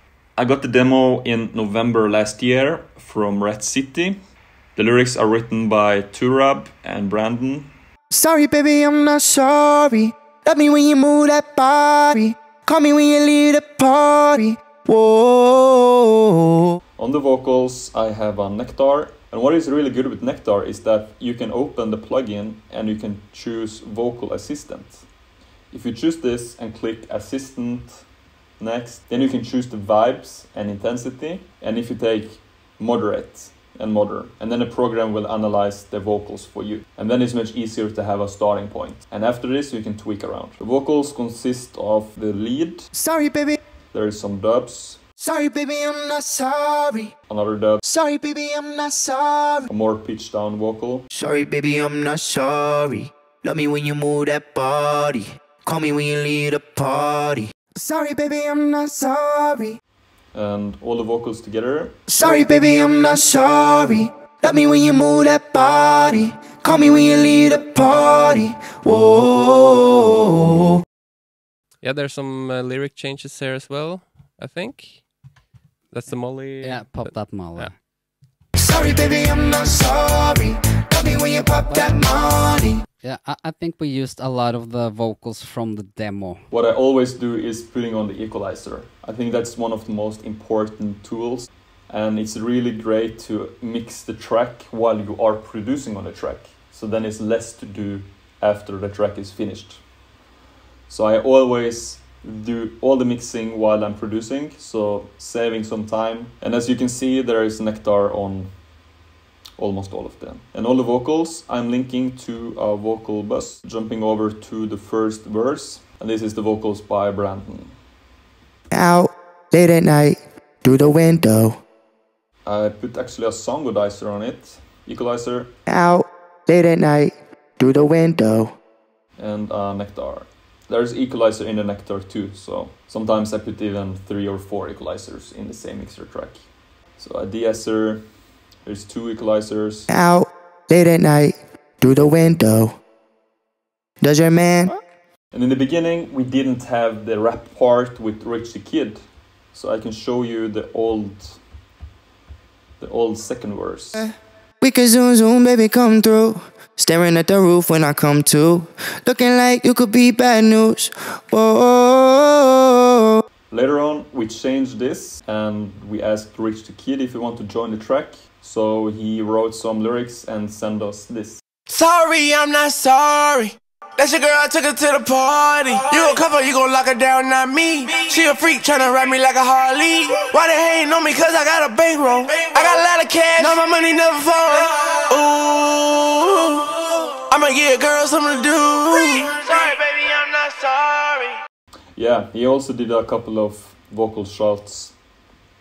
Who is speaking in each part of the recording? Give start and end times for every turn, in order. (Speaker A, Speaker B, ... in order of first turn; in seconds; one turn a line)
Speaker A: 0.4-4.2
Speaker A: 4.8-7.7
Speaker B: 8.1-16.6
Speaker A: 17.0-25.0
Speaker A: 25.7-28.1
Speaker A: 28.6-42.9
Speaker B: 42.9-43.6
Speaker A: 43.9-45.0
Speaker B: 45.2-47.1
Speaker A: 47.3-47.8
Speaker B: 47.8-49.7
Speaker A: 49.7-51.1
Speaker B: 51.1-59.8
Speaker A: 60.3-62.0
Speaker B: 62.1-70.8
Speaker C: 71.8-75.1
Speaker C: 75.9-77.8
Speaker D: 76.6-77.8
Speaker B: 78.6-82.8
Speaker D: 81.7-82.0
Speaker D: 83.0-86.4
Speaker A: 86.5-99.8
Speaker A: 100.9-108.5
Speaker A: 109.6-117.8
Speaker B: 118.7-121.6
Speaker A: 122.5-125.5
Speaker B: 125.7-128.5
Speaker A: 129.2-136.4
Speaker A: 137.0-138.1
Speaker A: 138.6-139.9
Speaker B: 139.9-142.8
Speaker B: 144.0-144.7
Speaker A: 145.3-149.0
Speaker A: 149.5-151.4
Speaker A: 152.8-154.0
Speaker B: 154.6-163.0
Speaker A: 163.5-171.4
Speaker E: 171.7-191.4
Speaker A: 191.9-194.9